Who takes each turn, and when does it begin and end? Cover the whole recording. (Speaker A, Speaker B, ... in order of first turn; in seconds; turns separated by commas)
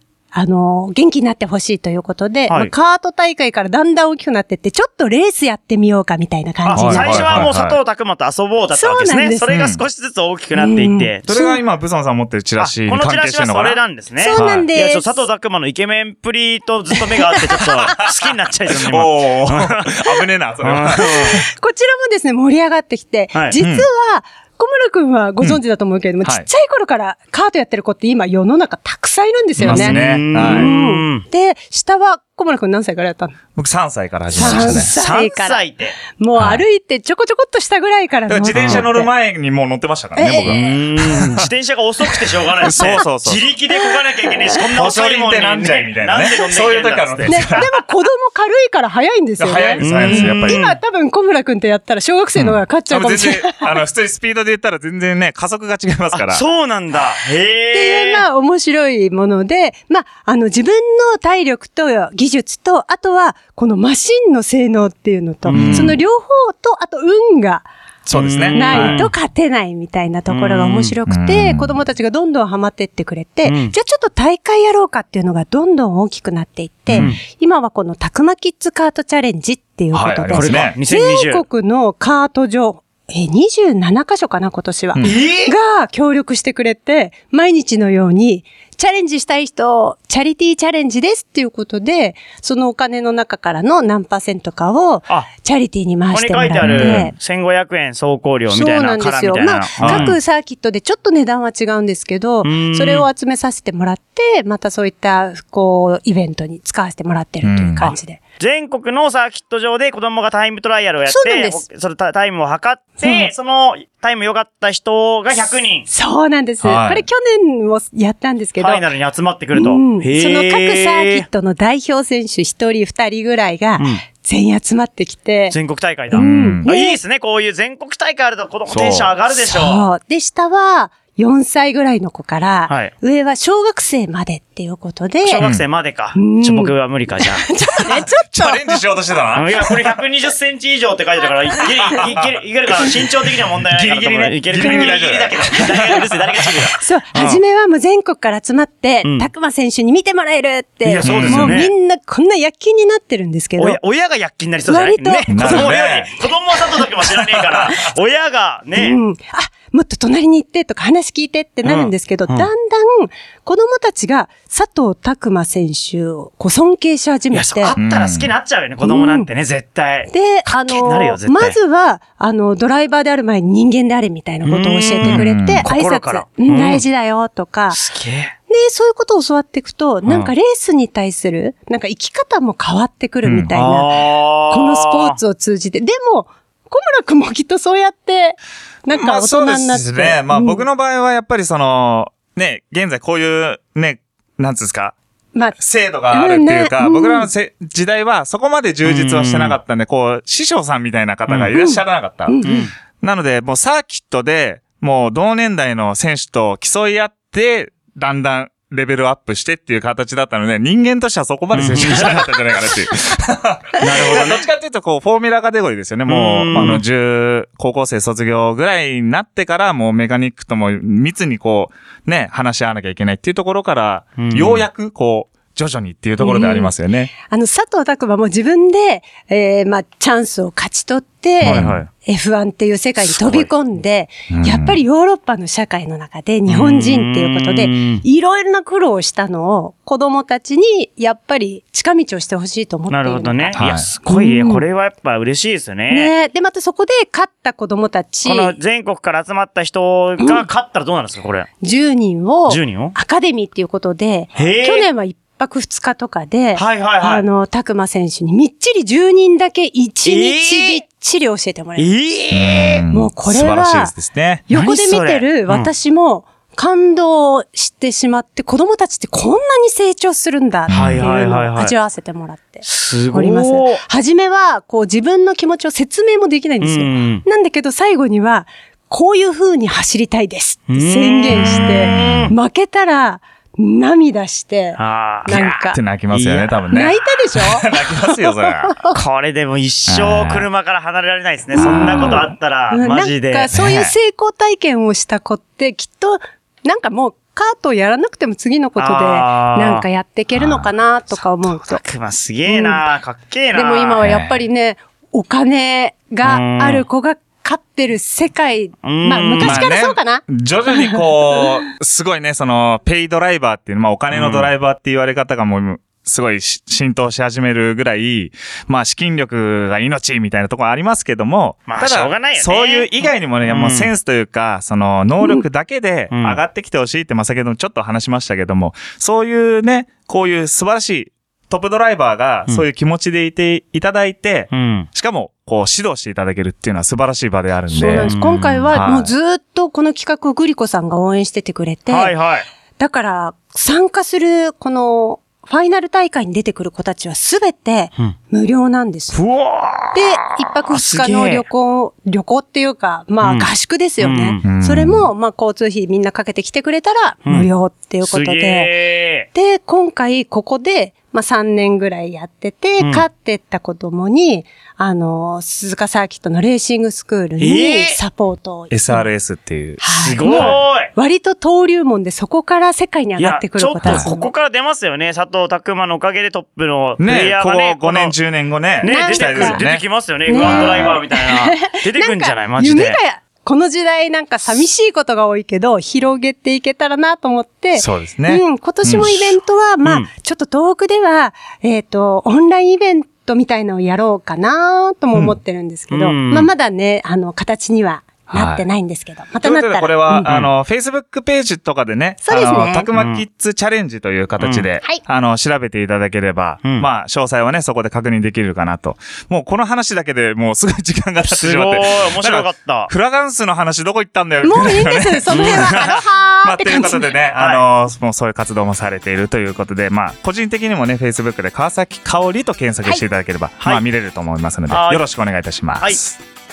Speaker A: 0.3-7.5, Speaker B: 6.6-11.2, Speaker C: 6.7-7.8, Speaker A: 8.7-9.5, Speaker C: 9.5-9.8, Speaker A: 10.6-11.6, Speaker C: 11.2-13.8, Speaker B: 12.6-21.4, Speaker A: 14.2-15.2, Speaker C: 14.3-14.7, Speaker C: 17.8-21.4, Speaker A: 21.0-33.4, Speaker C: 23.6-23.9, Speaker B: 29.6-31.2, Speaker C: 29.6-30.7, Speaker C: 33.5-34.9, Speaker A: 34.3-39.1, Speaker B: 34.4-36.0, Speaker C: 36.4-36.6, Speaker C: 38.3-41.5, Speaker B: 38.5-38.8, Speaker A: 40.1-40.7, Speaker B: 40.4-47.7, Speaker C: 42.6-43.4, Speaker C: 44.7-47.6, Speaker A: 47.3-53.7, Speaker C: 49.4-50.6, Speaker B: 49.8-50.8, Speaker C: 52.3-56.4, Speaker B: 56.1-58.2, Speaker A: 57.7-67.7, Speaker B: 65.5-66.0, Speaker C: 65.5-66.0, Speaker C: 68.0-69.0, Speaker B: 68.1-69.1, Speaker A: 68.5-97.1, Speaker B: 70.3-70.9, Speaker C: 71.1-71.8, Speaker B: 73.4-73.7, Speaker B: 77.0-77.2, Speaker C: 79.9-80.8, Speaker B: 80.3-81.4, Speaker C: 84.9-85.2, Speaker B: 85.0-85.5, Speaker B: 96.1-100.2, Speaker C: 96.6-97.1, Speaker A: 98.5-108.2, Speaker C: 99.8-100.1, Speaker B: 102.4-103.1, Speaker C: 107.4-107.9, Speaker B: 107.8-115.9, Speaker A: 111.1-111.6, Speaker A: 113.0-113.3, Speaker A: 115.9-118.8, Speaker C: 116.6-117.1, Speaker B: 118.6-121.2, Speaker A: 119.5-125.6, Speaker B: 123.8-124.0, Speaker B: 125.5-129.8, Speaker A: 126.1-127.0, Speaker C: 126.2-126.7, Speaker C: 128.7-129.1, Speaker A: 129.4-135.4, Speaker B: 132.7-132.9, Speaker B: 135.2-137.5, Speaker A: 136.1-138.8, Speaker C: 137.8-139.9, Speaker B: 139.3-147.4, Speaker A: 141.6-142.0, Speaker C: 141.9-142.4, Speaker C: 143.7-146.0, Speaker A: 144.6-145.0, Speaker A: 146.7-153.8, Speaker B: 149.0-149.3, Speaker B: 150.8-151.7, Speaker C: 151.0-151.6, Speaker B: 153.6-159.0, Speaker A: 154.7-155.7, Speaker C: 155.3-156.1, Speaker C: 157.1-157.7, Speaker A: 158.7-167.8, Speaker B: 161.6-162.5, Speaker B: 167.3-171.6, Speaker C: 167.7-168.3, Speaker A: 168.8-169.3, Speaker A: 170.1-177.8, Speaker B: 174.4-176.8, Speaker C: 175.0-175.7, Speaker B: 177.7-178.3, Speaker A: 178.5-190.6, Speaker B: 180.1-180.3, Speaker C: 183.2-183.6, Speaker B: 183.5-185.2, Speaker C: 188.9-194.9, Speaker C: 195.6-202.4, Speaker A: 196.1-197.3, Speaker B: 198.8-199.6, Speaker A: 201.5-202.6, Speaker B: 202.4-202.7, Speaker C: 203.0-227.1, Speaker B: 211.5-212.3, Speaker B: 213.8-214.4, Speaker B: 216.1-216.8, Speaker B: 224.2-224.6, Speaker A: 226.2-244.6, Speaker C: 231.4-231.8, Speaker B: 231.4-231.9, Speaker B: 233.2-233.5, Speaker C: 234.3-234.8, Speaker B: 236.5-238.0, Speaker B: 242.9-246.1, Speaker C: 243.6-243.9, Speaker A: 245.9-248.6, Speaker B: 248.2-251.5, Speaker A: 250.2-250.5, Speaker A: 251.6-261.9, Speaker B: 252.5-252.9, Speaker B: 254.3-254.9, Speaker B: 256.5-257.2, Speaker B: 260.0-260.8, Speaker B: 261.8-262.8, Speaker C: 262.3-264.4, Speaker A: 262.9-263.9, Speaker A: 264.5-285.8, Speaker B: 264.5-265.7, Speaker C: 270.7-271.1, Speaker B: 270.7-271.7, Speaker B: 272.6-273.8, Speaker B: 276.6-277.2, Speaker B: 280.7-282.4, Speaker C: 281.3-282.3, Speaker B: 284.8-285.6, Speaker C: 285.3-288.8, Speaker B: 286.1-286.6, Speaker A: 286.7-289.0, Speaker B: 288.9-293.5, Speaker C: 289.9-290.4, Speaker A: 291.5-301.8, Speaker C: 291.6-292.2, Speaker C: 293.5-293.9, Speaker B: 298.8-299.9, Speaker C: 300.3-300.7, Speaker B: 301.2-304.0, Speaker A: 302.5-302.8, Speaker A: 303.5-311.6, Speaker C: 304.0-304.4, Speaker B: 306.2-306.8, Speaker B: 308.8-309.6, Speaker C: 309.4-338.1, Speaker B: 314.1-314.5, Speaker B: 321.7-323.9, Speaker B: 326.1-326.4, Speaker B: 334.5-334.9, Speaker A: 337.7-342.1, Speaker B: 338.0-338.7, Speaker C: 338.7-339.1, Speaker B: 341.9-342.4, Speaker A: 342.8-349.2, Speaker B: 349.1-351.4, Speaker A: 349.9-358.7, Speaker B: 353.2-353.5, Speaker B: 354.0-354.4, Speaker C: 354.4-355.1, Speaker B: 358.0-359.3, Speaker A: 359.3-369.1, Speaker B: 362.8-363.1, Speaker B: 367.4-368.0, Speaker C: 368.7-370.6, Speaker A: 369.8-374.3, Speaker B: 369.9-370.9, Speaker B: 373.2-378.1, Speaker C: 377.0-381.0, Speaker B: 378.8-383.0, Speaker A: 378.8-379.6, Speaker A: 380.3-400.3, Speaker C: 387.7-389.2, Speaker B: 389.8-390.1, Speaker B: 395.9-396.5, Speaker C: 398.3-398.6, Speaker C: 399.4-426.2, Speaker B: 400.2-400.5, Speaker A: 402.2-402.9, Speaker B: 402.9-403.2, Speaker B: 404.4-404.6, Speaker B: 406.6-406.9, Speaker B: 411.2-412.9, Speaker A: 414.4-417.1, Speaker B: 415.3-416.0, Speaker B: 417.3-417.6, Speaker B: 424.7-425.0